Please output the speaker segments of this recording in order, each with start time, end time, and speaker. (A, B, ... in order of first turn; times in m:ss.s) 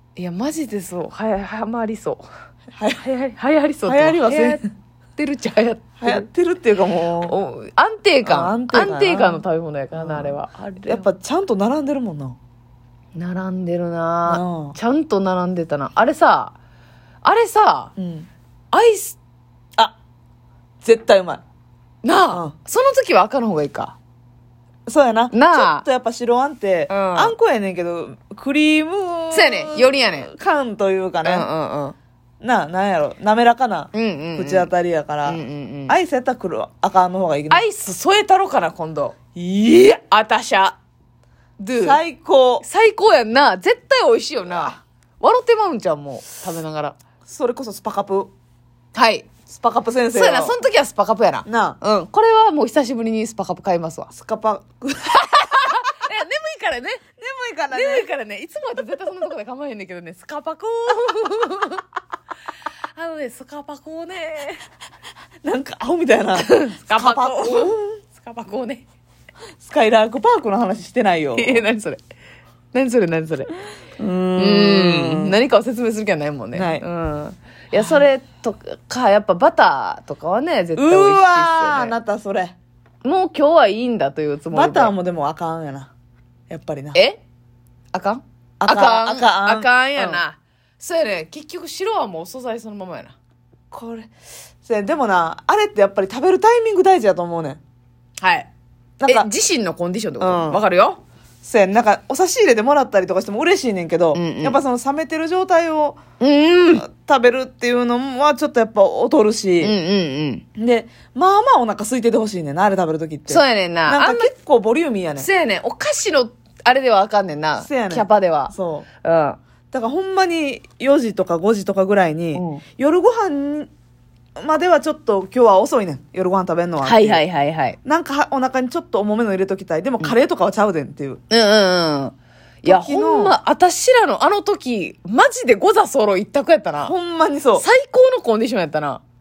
0:00.2-0:02.3 A
0:02.7-0:03.0 B
0:03.0-0:04.6 A
0:03.8-0:04.6 B
0:05.2-0:06.3 A
0:06.0-0:07.4 B
0:07.2-0:11.0 A
0:08.2-0:12.4 B
0:13.2-0:16.5 A
0:14.2-0:14.8 B
0:17.2-0:17.9 A
0:18.0-0:18.3 B
0:18.7-0:19.2 A
0:20.8-0:21.4 B
0:22.0-0:24.0 A
0:24.9-0:31.5 B
0:25.3-0:25.8 A
0:26.9-0:27.3 A
0:29.3-0:30.3 A
0:31.2-0:32.0 A
0:32.4-0:37.6 B
0:33.9-0:34.7 A
0:35.2-0:36.0 A
0:37.5-0:39.3 A
0:39.3-0:40.0 B
0:39.9-0:40.8 A
0:41.6-0:42.0 A
0:41.8-0:42.6 B
0:42.6-0:47.0 A
0:44.5-0:44.8 B
0:47.2-0:48.3 B
0:48.9-0:49.3 A
0:49.5-0:50.6 B
0:50.1-0:54.1 A
0:51.4-0:51.8 B
0:54.1-0:55.7 B
0:55.1-0:57.0 A
0:57.2-0:58.1 B
0:57.7-1:01.8 A
1:03.0-1:04.6 A
1:05.4-1:08.0 B
1:06.4-1:08.8 A
1:09.6-1:11.6 B
1:11.4-1:12.0 A
1:12.7-1:13.5 A
1:14.0-1:15.4 B
1:14.4-1:22.0 A
1:16.5-1:16.8 B
1:17.7-1:18.1 B
1:20.8-1:22.5 B
1:23.0-1:24.9 A
1:24.5-1:25.9 B
1:26.5-1:27.0 B
1:26.9-1:27.2 A
1:27.9-1:33.2 A
1:28.6-1:30.2 B
1:33.7-1:34.1 B
1:34.6-1:37.6 B
1:38.2-1:38.5 A
1:39.0-1:39.3 B
1:39.0-1:41.0 A
1:40.2-1:40.6 B
1:41.4-1:46.0 B
1:44.1-1:44.6 A
1:46.2-1:46.8 A
1:46.7-1:49.8 B
1:49.6-1:50.4 A
1:50.6-1:55.3 B
1:53.3-1:54.3 A
1:55.2-1:59.4 A
1:57.6-1:58.9 B
1:59.7-2:03.7 B
2:02.3-2:02.6 A
2:04.4-2:07.2 B
2:06.8-2:07.8 A
2:07.8-2:11.2 B
2:11.3-2:16.9 A
2:12.6-2:13.4 B
2:16.8-2:17.6 B
2:17.6-2:19.0 A